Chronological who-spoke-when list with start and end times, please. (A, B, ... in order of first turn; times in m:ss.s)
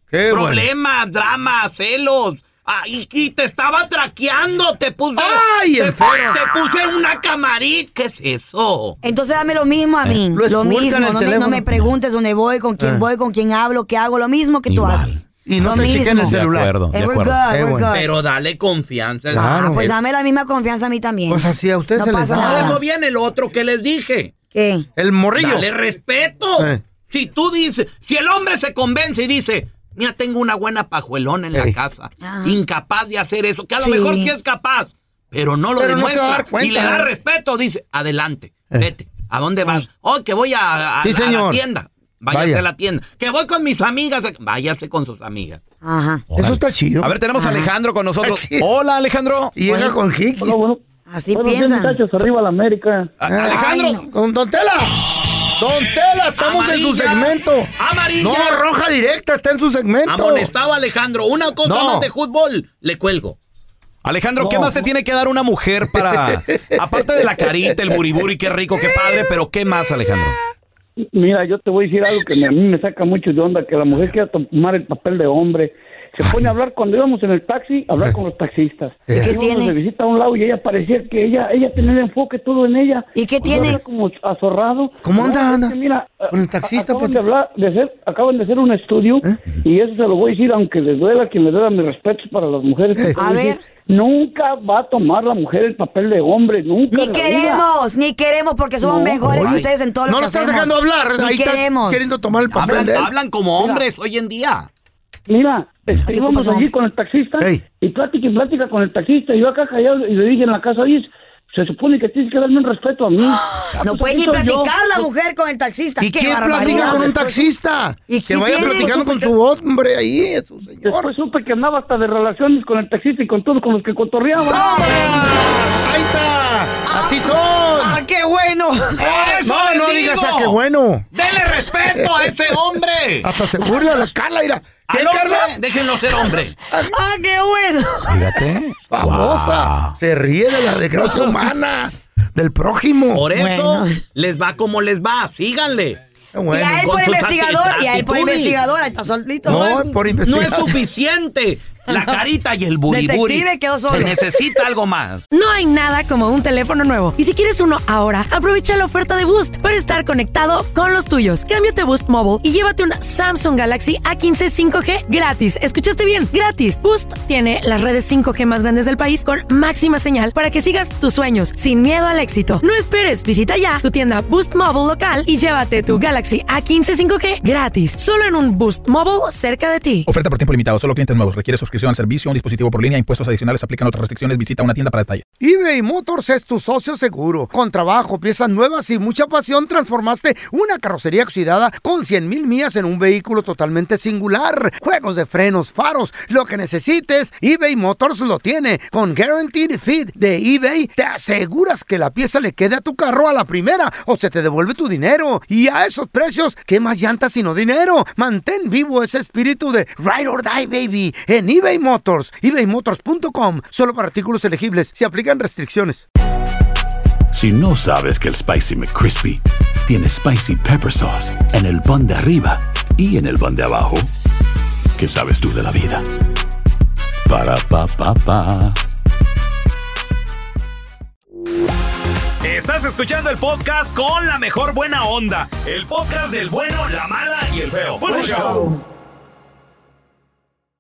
0:00.1-0:00.7 A
0:00.3-0:09.0 B
0:05.2-0:06.4 A
0:09.0-0:15.1 C
0:10.3-0:11.7 A
0:12.8-0:13.0 A
0:14.7-0:17.4 D
0:15.5-0:16.7 A
0:15.6-0:16.4 C
0:16.9-0:18.2 C
0:17.5-0:17.9 A
0:17.9-0:19.7 B
0:19.3-0:20.0 A
0:19.3-0:22.8 C
0:21.3-0:22.8 A
0:22.3-0:24.3 B
0:24.5-0:24.9 C
0:25.0-0:25.7 A
0:25.4-0:45.6 B
0:26.6-0:26.8 A
0:32.2-0:32.6 C
0:33.8-0:34.4 C
0:35.8-0:37.1 A
0:41.0-0:41.6 A
0:42.3-0:42.6 A
0:45.8-0:46.2 C
0:46.3-0:49.6 D
0:46.4-0:47.1 A
0:47.4-0:47.7 C
0:48.2-0:48.7 A
0:49.6-0:50.6 A
0:50.4-0:50.8 E
0:51.1-0:52.0 C
0:51.3-0:53.1 E
0:53.2-0:54.0 D
0:53.3-0:55.0 A
0:53.5-0:54.1 C
0:55.6-1:00.5 A
0:56.4-0:58.5 B
1:00.1-1:03.4 B
1:01.6-1:02.1 A
1:04.0-1:10.4 D
1:04.4-1:04.7 E
1:06.0-1:06.4 A
1:11.2-1:37.6 E
1:19.1-1:19.3 A
1:19.1-1:19.8 C
1:23.2-1:23.8 C
1:25.0-1:25.7 A
1:26.3-1:27.2 A
1:33.2-1:33.6 C
1:36.9-1:42.1 C
1:38.8-1:39.2 E
1:39.2-1:43.1 A
1:39.3-1:39.6 D
1:42.6-1:44.7 B
1:45.3-1:54.7 E
1:46.1-1:46.7 C
1:53.8-1:57.2 C
1:56.0-2:01.1 A
1:56.6-1:57.5 E
1:58.1-1:59.3 C
2:00.8-2:05.2 E
2:04.5-2:05.5 C
2:04.5-2:08.0 A
2:06.9-2:07.2 C
2:07.7-2:09.0 C
2:09.0-2:11.1 A
2:09.2-2:10.2 B
2:09.4-2:10.5 D
2:11.2-2:12.5 D
2:11.6-2:13.2 B
2:11.9-2:12.3 A
2:13.2-2:16.9 A
2:14.9-2:16.5 B
2:16.8-2:18.2 C
2:18.1-2:20.0 D
2:18.9-2:23.3 A
2:23.2-2:26.0 B
2:23.3-2:24.0 C
2:26.3-2:26.9 A
2:26.5-2:30.0 C
2:26.8-2:28.6 B
2:29.4-2:30.8 A
2:30.3-2:35.2 B
2:32.9-2:34.6 C
2:35.3-3:00.1 F
3:00.1-3:05.2 G
3:05.4-3:36.0 A
3:37.3-3:44.1 H
3:45.0-3:46.0 H
3:47.3-3:48.8 H
3:52.4-3:58.7 D
3:58.0-3:58.8 C